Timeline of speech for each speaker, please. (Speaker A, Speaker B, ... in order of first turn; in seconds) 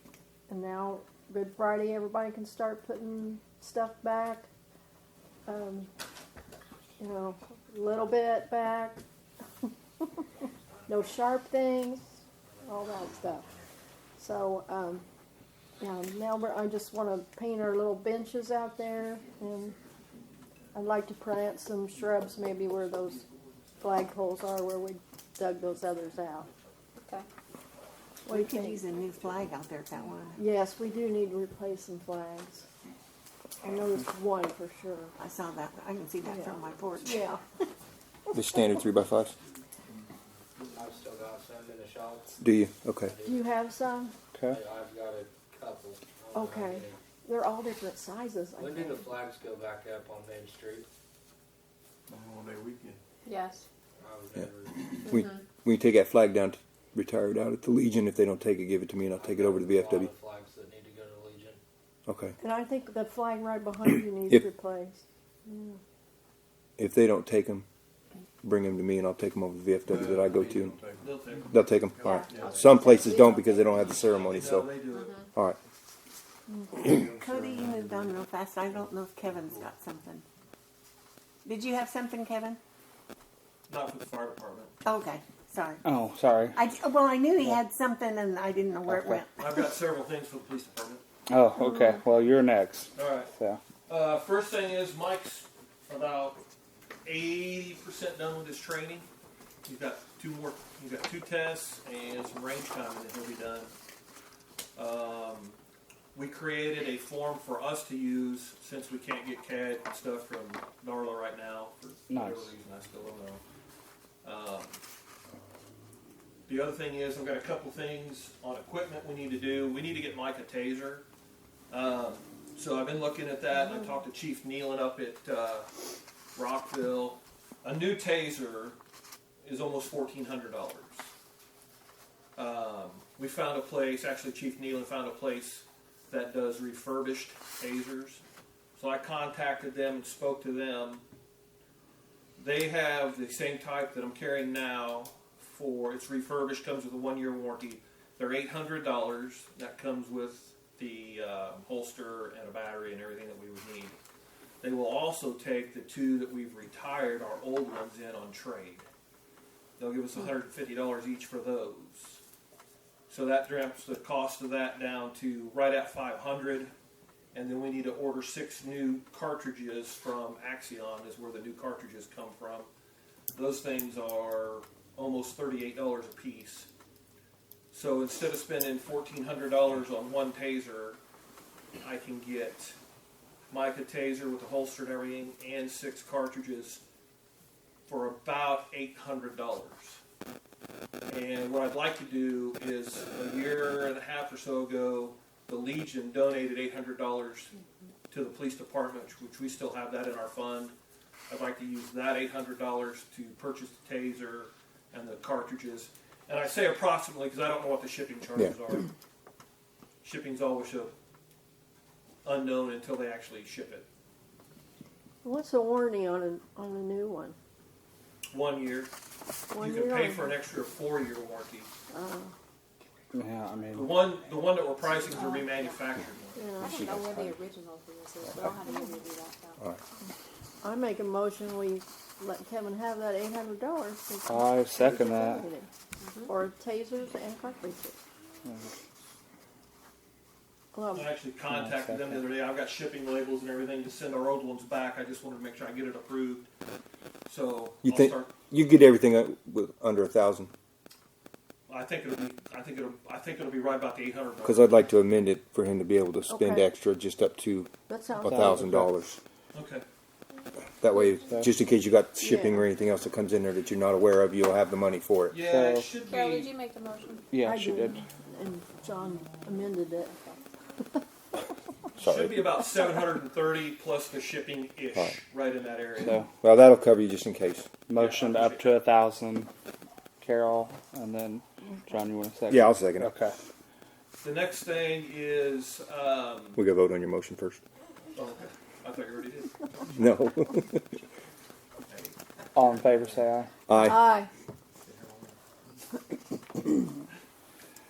Speaker A: 0.5-4.5, 5.5-5.9, 7.0-9.0, 9.6-10.2, 10.9-13.5, 14.2-15.0, 15.8-19.7, 20.7-23.2, 23.8-26.5, 28.2-28.9, 30.4-32.6, 33.6-35.1, 36.3-37.4, 43.2-44.1, 46.3-49.1, 62.4-65.8, 73.0-73.6, 76.5-76.7, 215.2-217.3, 219.5-220.4, 221.9-222.3, 226.4-226.9, 230.6-235.7, 236.2-238.0, 240.7-241.1, 256.3-256.7, 257.9-258.7, 262.2-262.7, 267.4-270.1, 293.7-294.3
Speaker B: 10.4-10.8, 40.6-42.4, 43.0-43.5, 44.5-47.0, 48.6-50.9, 54.0-54.8, 59.1-61.6
Speaker C: 28.2-30.4, 35.2-37.3, 77.0-80.2, 81.4-82.6, 84.8-85.8, 86.5-89.6
Speaker D: 38.3-39.3, 42.4-43.1, 55.0-60.1, 62.1-62.4, 66.8-67.7, 68.4-70.8, 71.5-74.8, 226.6-227.3, 247.8-250.5, 254.4-257.7, 258.2-259.2, 260.8-265.4, 272.0-272.4, 276.4-277.7, 282.5-283.1, 286.6-287.6, 289.9-290.9, 293.7-294.1
Speaker E: 44.3-44.6, 85.8-86.6, 88.9-89.2, 91.3-93.6, 112.1-112.5, 223.1-223.9, 234.2-235.5, 241.5-242.2, 258.2-258.9, 265.4-265.9, 267.3-268.0, 277.9-279.5, 280.2-283.3, 292.5-293.5
Speaker F: 52.1-53.0, 69.9-71.2, 72.0-72.7, 76.9-79.7
Speaker G: 53.2-53.6, 72.0-72.9, 74.9-75.2, 225.1-225.8, 226.6-229.6, 236.0-236.3, 266.0-267.3
Speaker H: 71.0-71.6, 73.9-75.2, 83.7-84.7, 89.4-91.0, 92.9-93.3, 93.9-96.4, 97.0-99.1, 99.6-103.7, 104.8-105.6, 106.1-113.4, 114.2-114.8, 116.5-121.0, 121.7-125.7, 126.3-128.8, 129.4-131.1, 132.3-138.2, 138.8-141.0, 142.4-153.9, 154.6-158.8, 159.8-162.2, 163.1-166.7, 167.3-172.7, 173.3-176.7, 177.7-181.0, 181.8-182.8, 183.5-186.8, 187.9-190.0, 191.1-197.5, 198.1-200.7, 201.3-208.9, 210.0-210.9, 212.2-213.8, 218.3-218.9, 219.6-221.7, 223.7-226.4, 240.9-246.5, 247.2-248.3, 251.7-254.7, 259.5-259.8, 265.3-266.6, 272.0-276.2, 277.9-278.7, 284.2-286.6, 288.1-289.9, 291.9-293.2, 294.8-295.4